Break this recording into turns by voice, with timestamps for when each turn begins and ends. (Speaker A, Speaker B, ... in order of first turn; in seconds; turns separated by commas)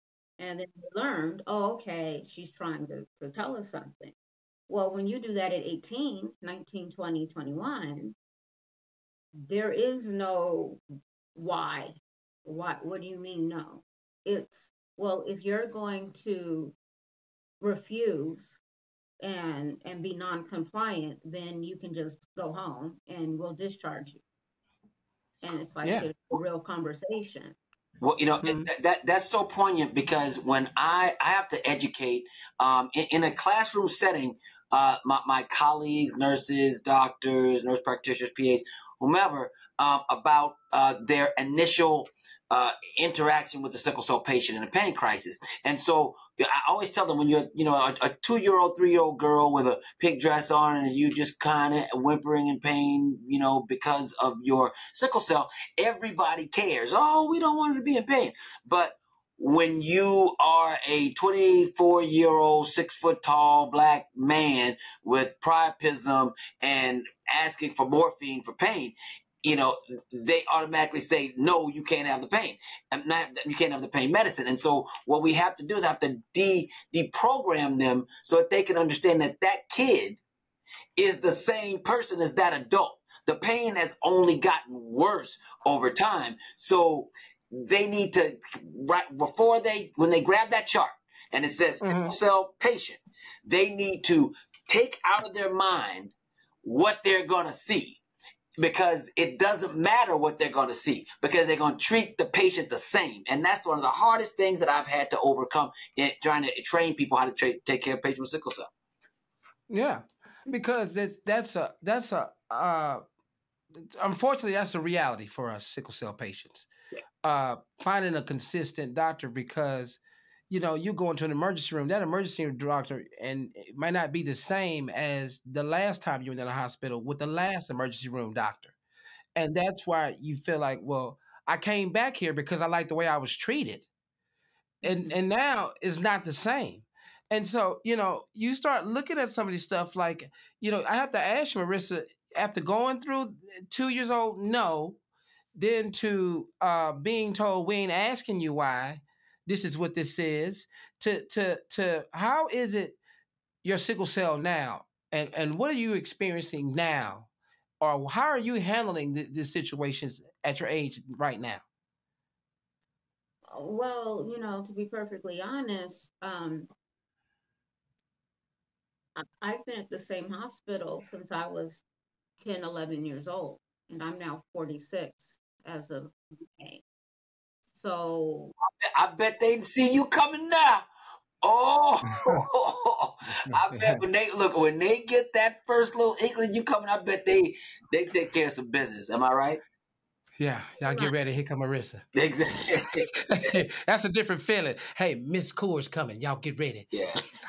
Speaker A: 0.4-4.1, Speaker A: 4.7-8.2, Speaker A: 9.5-10.8, Speaker A: 11.3-16.8, Speaker A: 17.6-18.6, Speaker A: 19.2-24.2, Speaker A: 25.4-27.6, Speaker B: 28.0-80.2, Speaker C: 28.4-28.7, Speaker B: 81.0-96.1, Speaker C: 91.8-92.2, Speaker B: 96.6-98.0, Speaker B: 98.6-108.7, Speaker C: 109.7-113.0, Speaker C: 114.0-116.7, Speaker C: 117.2-128.7, Speaker C: 129.3-133.9, Speaker A: 134.8-135.1, Speaker C: 134.8-145.0, Speaker C: 145.6-153.0, Speaker C: 153.6-157.3, Speaker C: 157.8-161.6, Speaker A: 163.4-166.7, Speaker A: 169.2-171.8, Speaker A: 172.4-176.8, Speaker A: 177.7-178.5, Speaker B: 178.9-180.8, Speaker B: 181.4-189.6, Speaker C: 182.1-182.4, Speaker C: 183.5-184.0, Speaker C: 190.4-192.1, Speaker A: 190.8-191.1, Speaker B: 192.1-193.1, Speaker C: 193.3-196.9, Speaker B: 196.9-197.2